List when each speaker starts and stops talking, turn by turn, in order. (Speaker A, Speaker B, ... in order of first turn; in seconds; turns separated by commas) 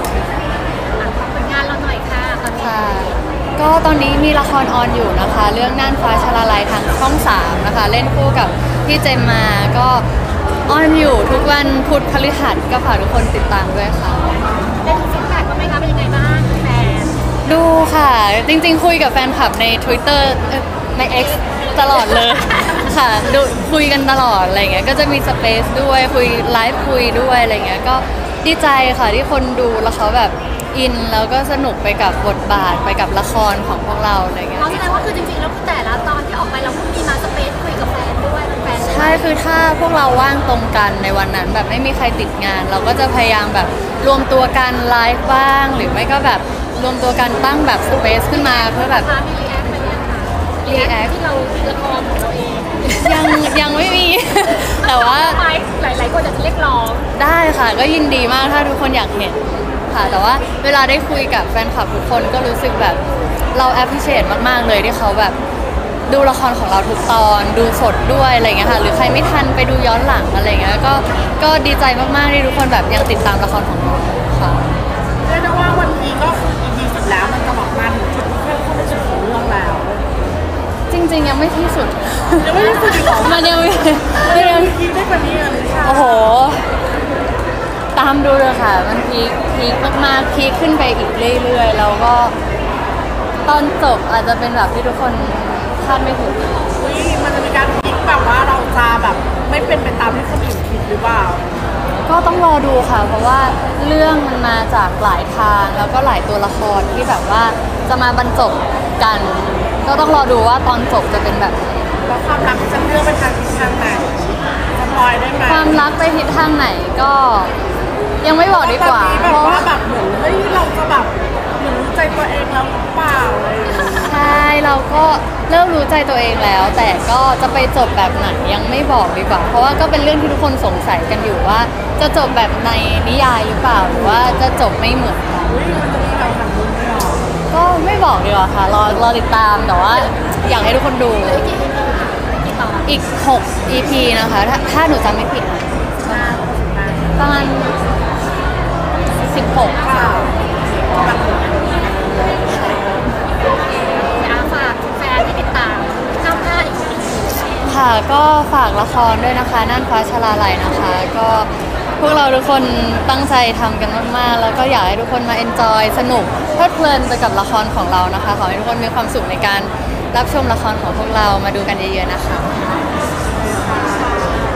Speaker A: 0.9-3.2, Speaker B: 2.6-10.1, Speaker B: 10.7-14.4, Speaker A: 14.8-17.2, Speaker B: 17.4-35.0, Speaker A: 21.0-23.0, Speaker A: 34.6-39.3, Speaker B: 38.8-49.1, Speaker A: 48.2-53.5, Speaker B: 50.6-51.1, Speaker B: 53.0-55.4, Speaker A: 54.6-57.1, Speaker B: 57.1-63.0, Speaker B: 63.5-65.3, Speaker B: 66.1-74.7, Speaker C: 75.2-80.2, Speaker B: 80.9-84.7, Speaker C: 82.4-86.4, Speaker B: 85.8-86.6, Speaker B: 87.9-92.3, Speaker B: 93.5-96.7, Speaker C: 96.8-101.6, Speaker B: 102.0-111.6, Speaker C: 112.0-115.9, Speaker B: 115.5-117.5, Speaker B: 118.2-119.7, Speaker C: 118.5-124.2, Speaker B: 124.0-135.6, Speaker C: 135.5-137.3, Speaker B: 137.5-141.4, Speaker A: 141.2-142.9, Speaker B: 142.9-146.2, Speaker C: 146.0-147.2, Speaker B: 147.2-147.8, Speaker B: 149.2-149.8, Speaker C: 149.8-152.4, Speaker B: 152.5-153.0, Speaker A: 153.4-157.5, Speaker B: 157.7-172.6, Speaker C: 173.5-174.4